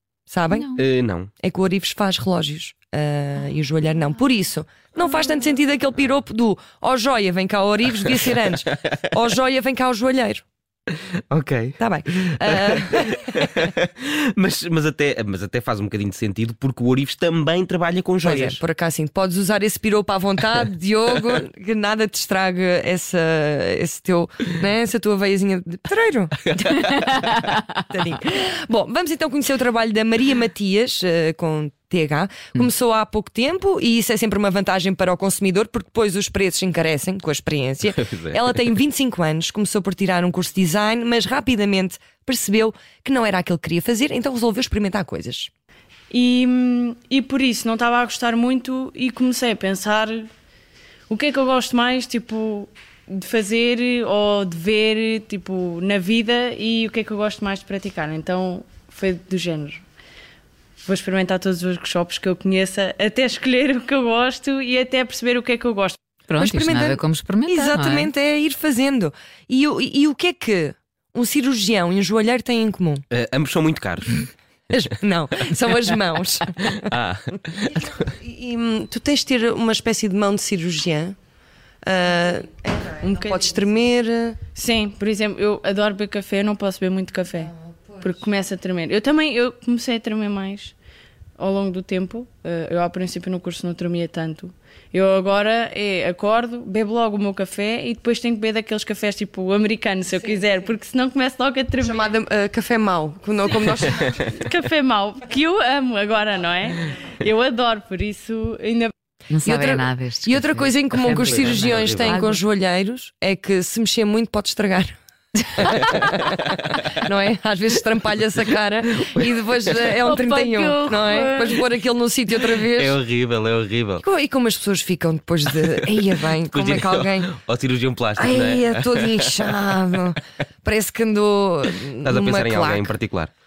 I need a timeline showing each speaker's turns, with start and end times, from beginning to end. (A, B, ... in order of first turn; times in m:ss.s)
0:00.3-0:00.7 A
0:00.5-0:00.8 B
0:00.8-0:01.3 C
0:01.4-0:10.4 A
0:10.9-0:18.6 C
0:11.8-0:13.5 A
0:18.2-0:26.5 A
0:26.6-0:27.4 C
0:27.9-0:45.5 A
0:37.9-0:38.4 C
0:46.1-0:50.3 D
0:51.1-0:59.8 D
1:00.8-1:06.0 D
1:06.3-1:08.1 B
1:06.4-1:13.0 A
1:13.1-1:14.3 C
1:14.7-1:16.9 A
1:16.9-1:17.9 C
1:17.6-1:21.2 A
1:21.8-1:24.4 A
1:23.0-1:23.6 D
1:24.6-1:30.8 D
1:27.4-1:28.1 A
1:31.4-1:42.0 D
1:41.8-1:44.2 A
1:44.3-1:48.9 D
1:49.3-1:52.4 B
1:49.4-1:54.9 A
1:51.1-1:52.2 C
1:55.5-2:03.0 A
1:56.0-1:56.8 C
2:00.0-2:01.6 B
2:02.7-2:04.0 C
2:04.0-2:07.3 A
2:06.5-2:09.4 C
2:08.2-2:12.9 A
2:12.0-2:13.3 C